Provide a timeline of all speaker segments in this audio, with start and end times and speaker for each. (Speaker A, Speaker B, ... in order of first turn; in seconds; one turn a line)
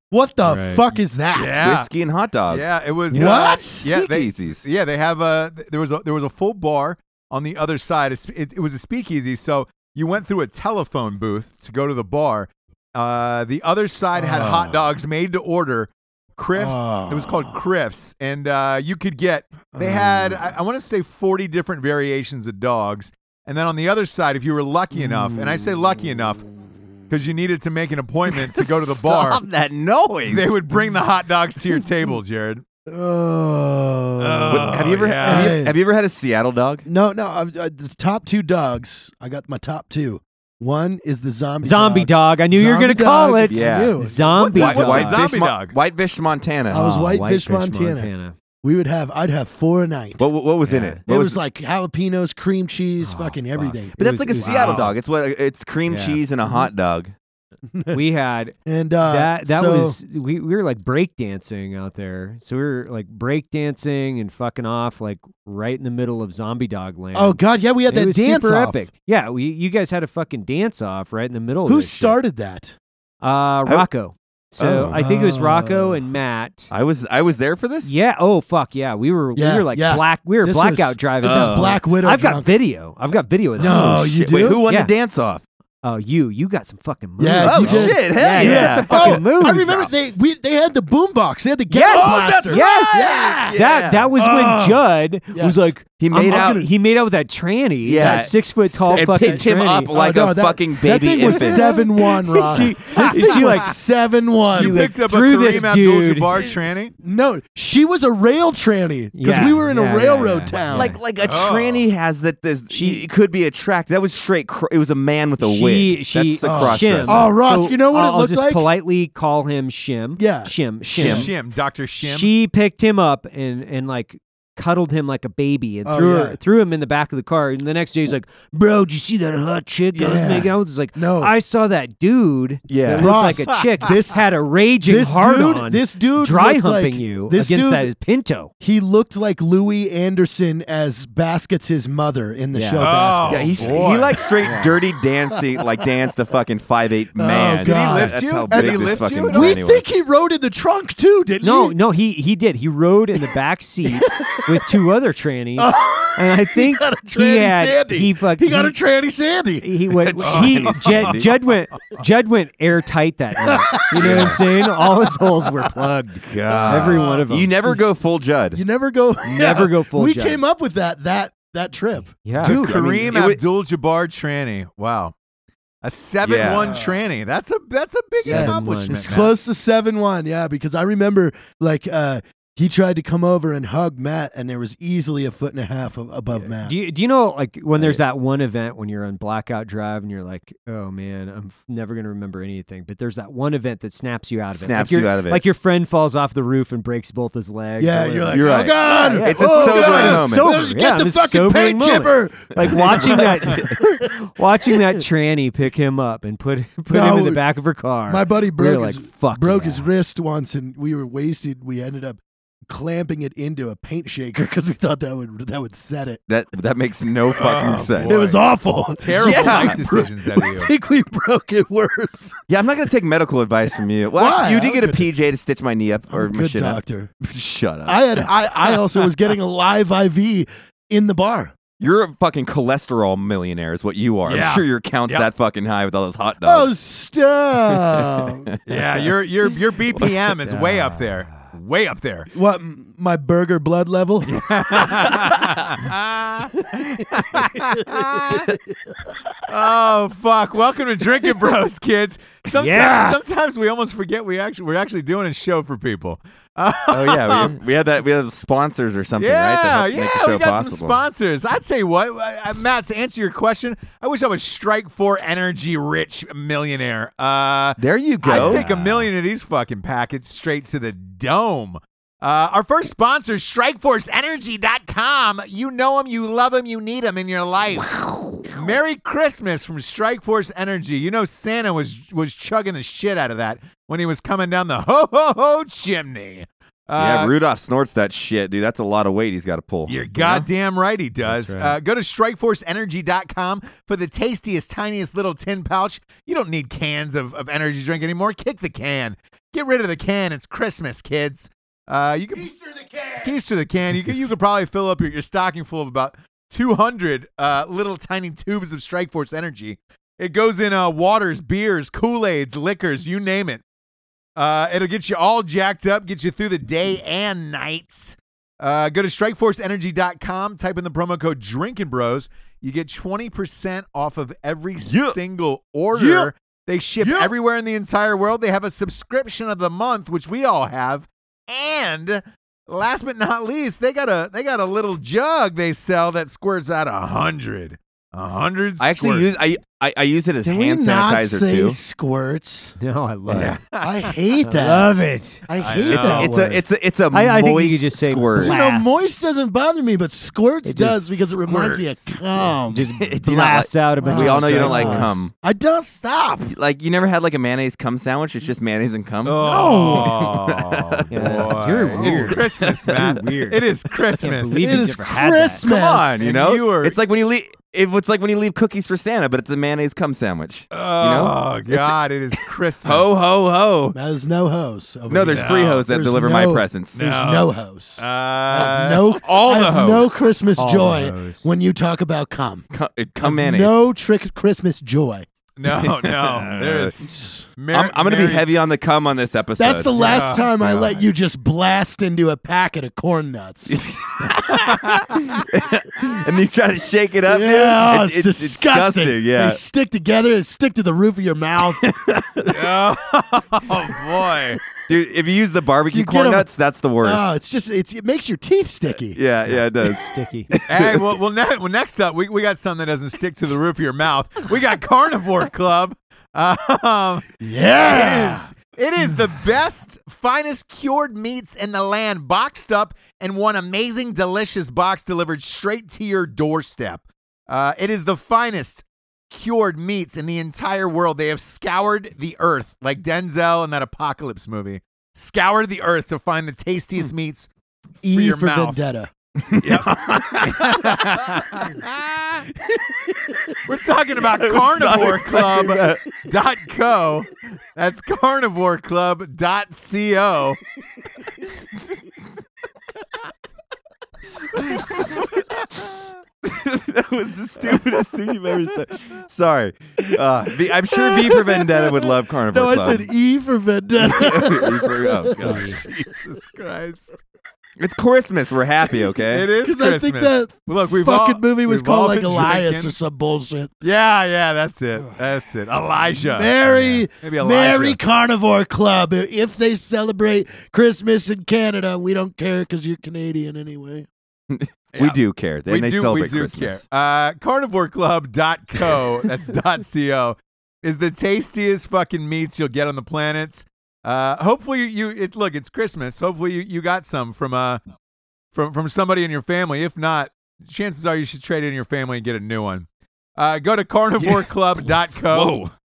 Speaker A: 0.1-1.6
Speaker B: 0.4-0.8
Speaker C: 1.3-1.9
Speaker D: 1.6-3.3
Speaker C: 2.5-26.4
Speaker A: 3.1-3.9
Speaker D: 3.8-4.6
Speaker A: 14.1-14.9
Speaker A: 16.5-17.6
Speaker A: 19.7-20.6
Speaker A: 24.9-26.7
Speaker C: 27.1-29.4
Speaker D: 28.3-30.5
Speaker C: 30.3-32.6
Speaker A: 32.9-35.8
Speaker C: 34.2-35.6
Speaker D: 34.5-36.9
Speaker A: 36.9-44.5
Speaker B: 41.6-45.2
Speaker D: 43.5-44.0
Speaker C: 44.3-45.7
Speaker D: 44.5-46.8
Speaker A: 46.7-48.1
Speaker B: 46.7-48.3
Speaker A: 48.6-50.2
Speaker D: 50.2-51.4
Speaker B: 50.6-51.0
Speaker A: 51.0-53.9
Speaker B: 53.0-54.9
Speaker D: 54.0-57.1
Speaker C: 54.4-54.9
Speaker B: 55.9-56.6
Speaker A: 57.7-58.0
Speaker B: 57.9-72.2
Speaker A: 58.6-60.0
Speaker A: 67.1-68.8
Speaker A: 71.7-72.8
Speaker B: 73.2-76.7
Speaker D: 74.6-74.9
Speaker A: 74.6-76.0
Speaker D: 76.7-77.9
Speaker B: 77.8-84.9
Speaker A: 79.3-82.5
Speaker D: 81.2-81.8
Speaker A: 83.6-84.6
Speaker D: 83.6-85.4
Speaker B: 85.8-89.9
Speaker A: 87.2-93.5
Speaker D: 87.4-89.3
Speaker B: 91.7-99.9
Speaker D: 91.9-94.1
Speaker A: 94.2-94.8
Speaker A: 95.3-95.7
Speaker D: 96.0-96.6
Speaker A: 96.2-96.7
Speaker D: 97.8-101.7
Speaker A: 98.0-104.8
Speaker B: 101.3-103.7
Speaker C: 102.9-103.6
Speaker B: 104.5-106.3
Speaker C: 104.5-106.9
Speaker A: 107.0-111.0
Speaker B: 109.1-111.0
Speaker D: 110.7-117.3
Speaker C: 111.2-111.8
Speaker B: 112.7-113.0
Speaker B: 115.4-121.3
Speaker A: 116.4-118.7
Speaker A: 120.2-121.1
Speaker D: 120.9-121.3
Speaker C: 121.0-122.3
Speaker B: 122.0-138.5
Speaker A: 125.8-126.4
Speaker D: 129.9-130.4
Speaker A: 130.0-131.3
Speaker D: 132.7-133.3
Speaker A: 132.9-134.3
Speaker C: 133.5-133.9
Speaker A: 134.8-137.9
Speaker A: 138.6-144.0
Speaker B: 142.5-142.9
Speaker C: 142.8-144.3
Speaker D: 143.2-149.9
Speaker B: 144.4-144.8
Speaker A: 147.2-151.8
Speaker C: 147.6-149.6
Speaker B: 151.4-158.8
Speaker A: 153.8-154.7
Speaker A: 155.6-160.7
Speaker B: 159.6-167.5
Speaker D: 160.2-161.3
Speaker C: 160.2-161.2
Speaker A: 163.4-165.3
Speaker D: 163.9-164.4
Speaker D: 166.2-168.6
Speaker A: 166.5-167.8
Speaker A: 168.5-172.6
Speaker B: 169.3-170.4
Speaker B: 172.2-172.6
Speaker D: 172.4-173.4
Speaker C: 172.4-175.1
Speaker C: 175.8-179.3
Speaker D: 176.2-176.8
Speaker A: 176.5-177.0
Speaker A: 178.2-186.8
Speaker B: 178.2-179.0
Speaker B: 186.6-209.9
Speaker D: 194.5-195.4
Speaker A: 197.8-204.1
Speaker D: 198.3-200.6
Speaker A: 204.7-205.0
Speaker A: 206.9-207.4
Speaker A: 208.1-216.2
Speaker D: 216.3-218.2
Speaker C: 217.3-220.7
Speaker A: 218.0-222.4
Speaker D: 219.1-219.9
Speaker D: 222.5-229.1
Speaker A: 224.1-225.1
Speaker A: 226.1-227.1
Speaker A: 227.8-231.5
Speaker D: 231.8-236.7
Speaker C: 234.3-235.3
Speaker A: 236.4-238.5
Speaker D: 237.7-239.0
Speaker C: 238.7-242.3
Speaker B: 240.4-241.4
Speaker A: 242.3-244.4
Speaker C: 244.2-248.5
Speaker A: 247.4-249.2
Speaker C: 249.5-257.5
Speaker B: 252.5-253.2
Speaker D: 256.9-261.0
Speaker C: 259.2-287.3
Speaker D: 267.8-268.7
Speaker B: 268.3-269.1
Speaker D: 287.0-290.5
Speaker C: 289.9-302.5
Speaker B: 291.2-291.8
Speaker A: 302.3-303.3
Speaker C: 303.2-313.6
Speaker C: 314.4-339.3
Speaker D: 324.8-325.2
Speaker D: 325.9-326.3
Speaker D: 327.0-327.3
Speaker D: 338.8-341.8
Speaker A: 340.4-342.8
Speaker B: 342.8-343.6
Speaker C: 343.3-344.1
Speaker A: 343.8-346.6
Speaker B: 344.4-345.4
Speaker C: 345.6-346.4
Speaker D: 345.9-348.6
Speaker B: 347.1-348.9
Speaker A: 348.4-352.9
Speaker B: 350.6-351.4
Speaker D: 351.5-351.8
Speaker B: 352.7-355.1
Speaker D: 353.0-355.3
Speaker A: 354.0-356.5
Speaker D: 356.4-363.0
Speaker C: 359.2-364.6
Speaker B: 361.1-363.6
Speaker B: 364.2-365.7
Speaker A: 364.5-366.3
Speaker D: 365.6-374.0
Speaker C: 366.2-367.0
Speaker C: 370.7-373.1
Speaker A: 373.9-382.6
Speaker D: 375.1-377.0
Speaker C: 375.2-375.8
Speaker C: 376.9-379.1
Speaker D: 379.1-380.3
Speaker B: 380.6-381.4
Speaker D: 382.7-383.7
Speaker A: 383.2-385.2
Speaker C: 385.6-388.4
Speaker D: 385.7-386.9
Speaker A: 387.0-387.4
Speaker D: 387.7-390.3
Speaker A: 389.6-393.8
Speaker C: 389.9-391.0
Speaker D: 393.7-399.6
Speaker C: 394.5-395.2
Speaker A: 397.2-401.8
Speaker D: 401.8-402.7
Speaker C: 402.4-404.6
Speaker D: 404.8-407.3
Speaker A: 405.9-406.5
Speaker A: 407.0-409.2
Speaker D: 409.1-411.0
Speaker B: 409.4-410.5
Speaker C: 410.7-417.3
Speaker A: 417.4-418.5
Speaker C: 417.8-437.5
Speaker A: 438.0-439.1
Speaker C: 438.1-438.8
Speaker D: 439.4-441.1
Speaker C: 439.6-442.5
Speaker C: 443.6-450.6
Speaker D: 444.3-446.0
Speaker D: 456.4-463.1
Speaker A: 460.9-465.8
Speaker D: 464.0-465.8
Speaker B: 465.4-465.8
Speaker C: 465.5-467.1
Speaker D: 467.8-469.5
Speaker C: 469.3-472.9
Speaker A: 469.6-473.7
Speaker C: 473.8-476.6
Speaker A: 476.1-484.1
Speaker C: 477.1-478.0
Speaker D: 484.5-486.8
Speaker C: 484.9-497.8
Speaker C: 498.5-505.6
Speaker D: 504.2-504.5
Speaker D: 505.3-505.7